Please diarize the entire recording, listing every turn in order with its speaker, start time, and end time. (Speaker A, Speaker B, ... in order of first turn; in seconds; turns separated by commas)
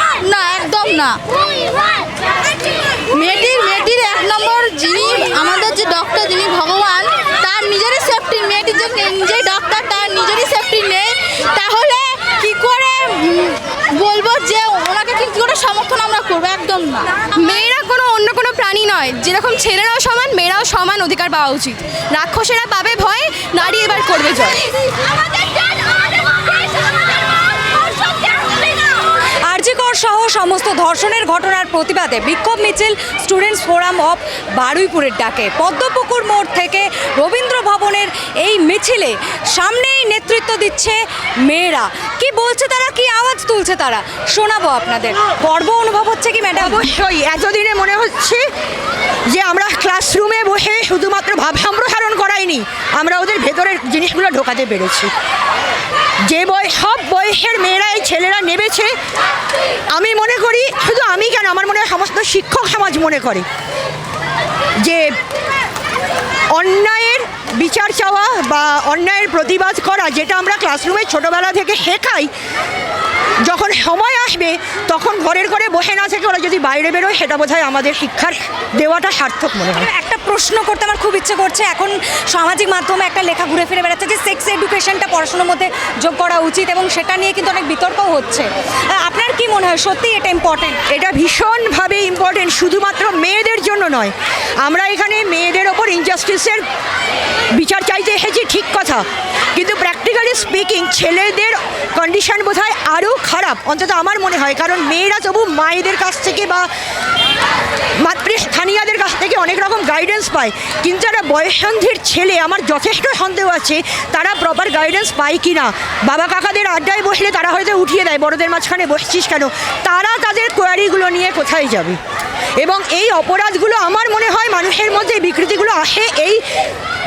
Speaker A: 0.2-1.2, Speaker A: 3.1-17.6, Speaker B: 11.9-12.5, Speaker B: 17.3-24.6, Speaker A: 18.6-19.0, Speaker C: 29.5-46.9, Speaker D: 46.6-48.4, Speaker D: 49.3-55.1, Speaker D: 56.3-58.9, Speaker D: 59.9-63.5, Speaker D: 64.8-65.1, Speaker D: 66.5-72.3, Speaker D: 73.5-79.9, Speaker C: 79.7-90.8, Speaker D: 90.9-96.6, Speaker D: 97.5-106.7, Speaker D: 108.0-122.0, Speaker D: 122.6-126.4